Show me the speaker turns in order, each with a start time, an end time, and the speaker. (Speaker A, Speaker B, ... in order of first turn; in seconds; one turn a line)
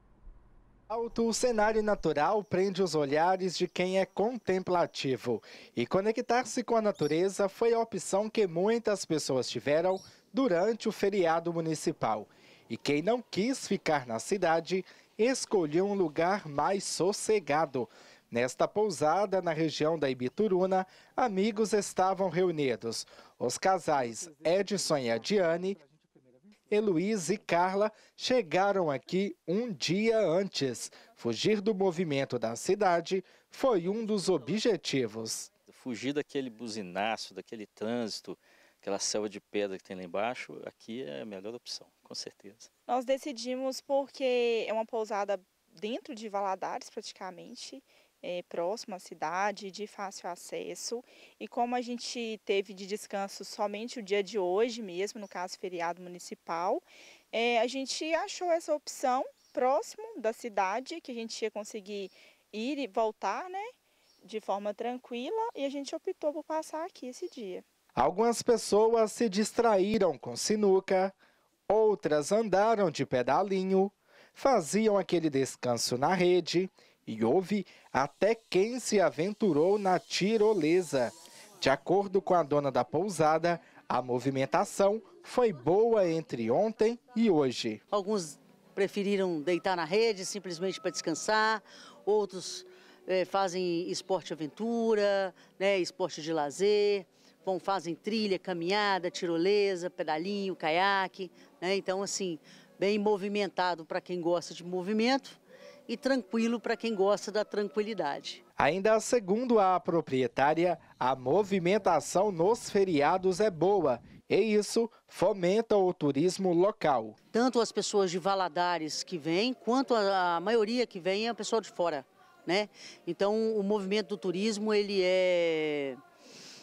Speaker A: 0.9-25.8
Speaker A: 26.7-35.5
Speaker B: 35.7-42.7
Speaker C: 42.9-63.7
Speaker C: 64.2-67.6
Speaker A: 68.0-71.2
Speaker A: 71.7-87.8
Speaker D: 87.9-108.4
Speaker A: 108.6-117.2
Speaker D: 117.3-126.0